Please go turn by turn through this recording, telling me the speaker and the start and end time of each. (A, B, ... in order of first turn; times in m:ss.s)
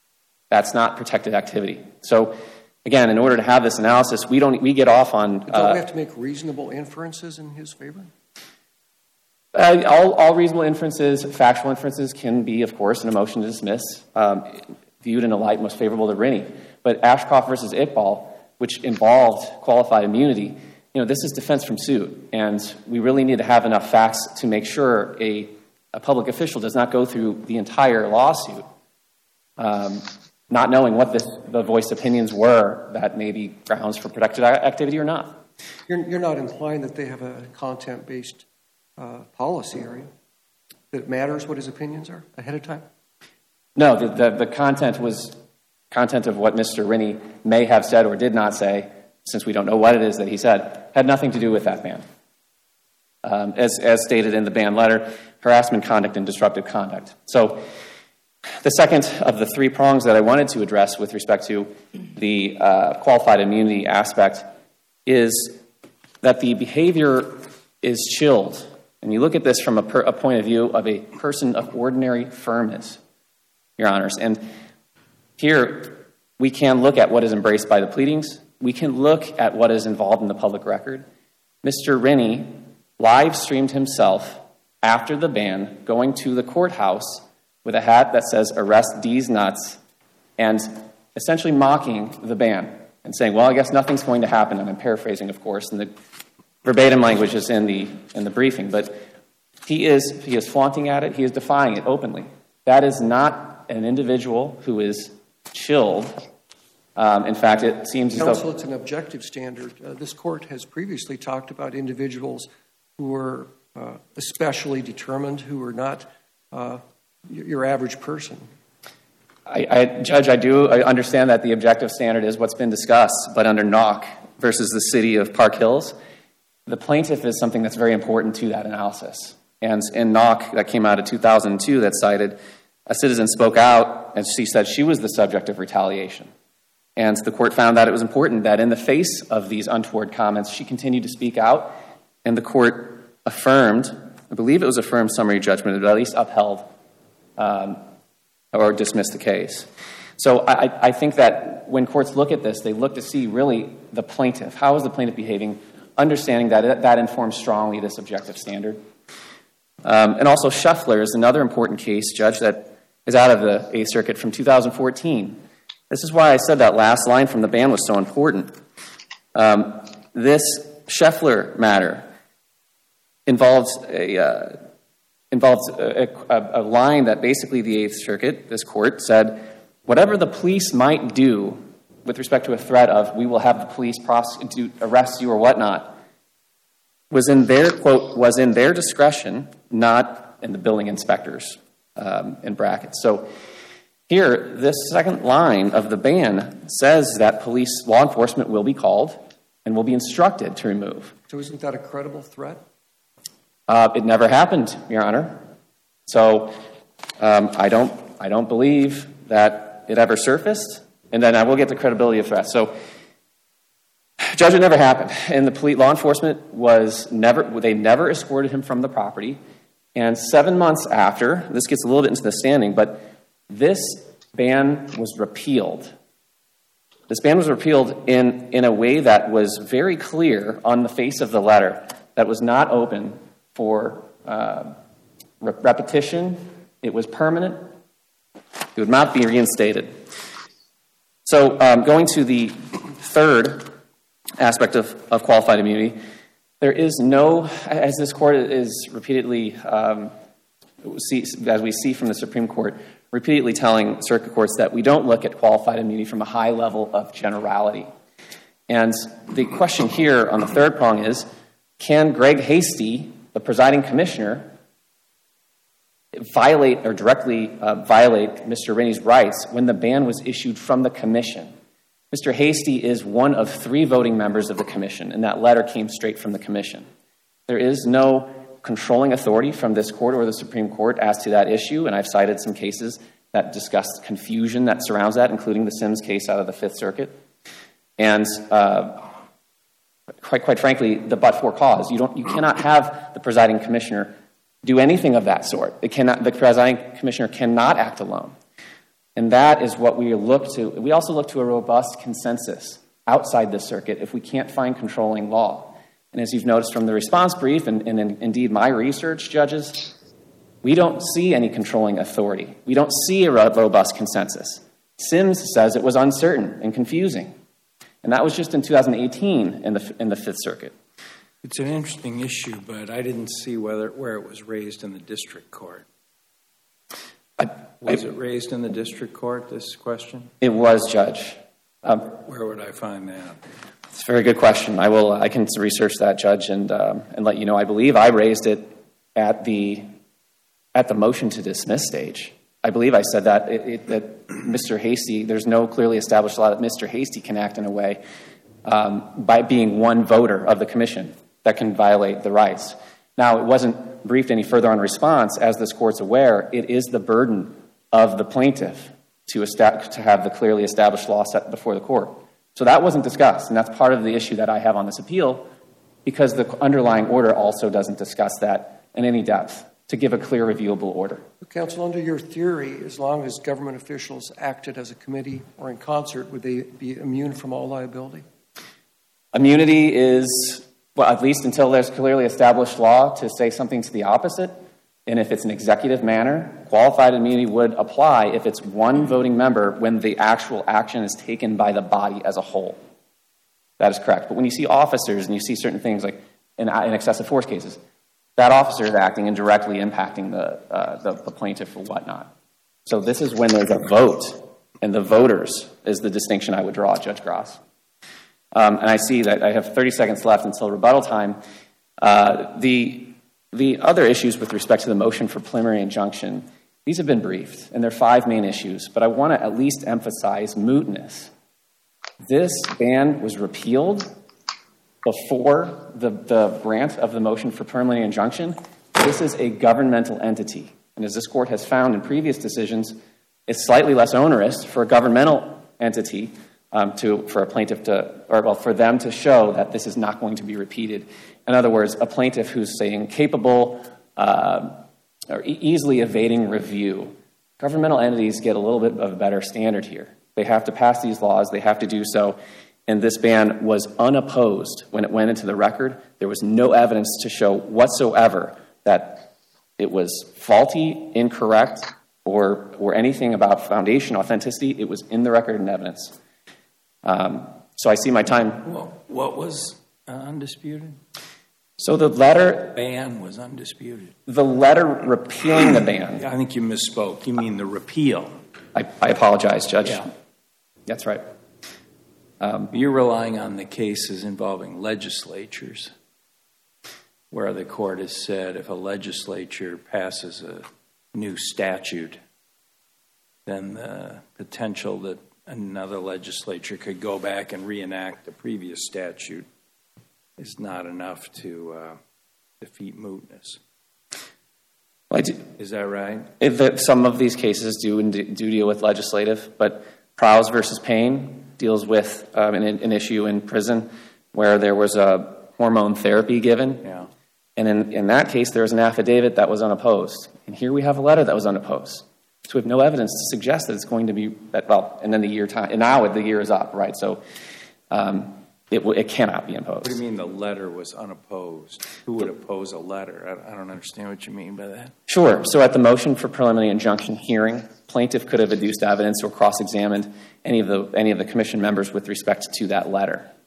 0:00.5-0:05.8 A
0:05.5-0:08.1 B
0:09.5-0:28.6 A
0:29.6-0:35.4 A
0:35.9-0:38.4 B
0:39.0-0:40.1 B
0:40.9-0:42.8 B
0:43.8-0:45.4 A
0:45.9-0:52.0 A
0:53.2-0:57.6 A
0:58.6-1:04.5 A
1:05.1-1:05.6 A
1:06.2-1:13.0 A
1:13.8-1:14.4 A
1:15.4-1:21.1 A
1:21.6-1:29.8 A
1:30.4-1:35.9 A
1:36.6-1:39.0 A
1:39.6-1:46.1 A
1:47.0-1:48.4 A
1:48.1-1:58.4 B
1:59.5-2:06.0 A
2:06.7-2:16.3 A
2:17.0-2:26.7 A
2:27.4-2:27.8 A
2:28.5-2:29.7 A
2:30.2-2:38.8 A
2:39.8-2:45.4 A
2:45.9-2:48.6 A
2:49.3-2:52.1 A
2:53.2-2:54.6 A
2:55.3-3:06.0 A
3:07.1-3:13.3 A
3:14.1-3:21.1 A
3:21.3-3:22.6 B
3:23.7-3:25.4 A
3:26.1-3:26.6 A
3:27.2-3:32.7 A
3:34.3-3:39.4 A
3:39.9-3:45.9 A
3:47.1-3:54.8 A
3:55.4-3:57.6 A
3:58.8-4:00.0 A
4:01.2-4:03.8 A
4:04.4-4:06.0 A
4:06.6-4:10.1 A
4:10.8-4:17.9 A
4:18.7-4:21.2 A
4:21.8-4:24.5 A
4:26.1-4:31.5 A
4:32.1-4:36.9 A
4:37.5-4:47.2 A
4:48.0-4:49.0 A
4:50.2-4:58.3 A
4:59.2-5:09.9 A
5:10.6-5:17.3 A
5:18.0-5:20.8 A
5:21.4-5:25.8 C
5:27.8-5:30.3 C
5:30.4-5:32.1 A
5:32.2-5:33.4 C
5:33.9-5:39.9 A
5:40.7-5:48.0 A
5:48.6-6:05.5 A
6:06.0-6:11.2 A
6:11.4-6:18.2 B
6:19.3-6:24.6 A
6:25.1-6:32.8 A
6:33.8-6:37.8 A
6:38.4-6:42.3 A
6:42.8-6:47.6 A
6:48.5-6:51.4 A
6:52.0-7:01.3 A
7:02.2-7:04.1 A
7:05.0-7:13.0 A
7:13.5-7:46.2 A
7:47.0-7:48.7 A
7:48.6-7:51.0 C
7:51.8-7:52.8 A
7:52.7-7:54.2 C
7:54.3-7:56.2 A
7:56.2-7:58.3 C
7:58.7-8:00.1 A
8:00.9-8:01.2 A
8:02.4-8:02.7 A
8:02.7-8:05.9 C
8:07.3-8:12.2 C
8:13.4-8:19.5 C
8:20.4-8:22.0 C
8:22.6-8:23.6 C
8:25.1-8:25.4 A
8:25.6-8:26.3 C
8:26.4-8:36.9 A
8:37.6-8:47.2 A
8:47.9-8:50.0 A
8:49.8-8:54.9 C
8:55.1-9:03.3 A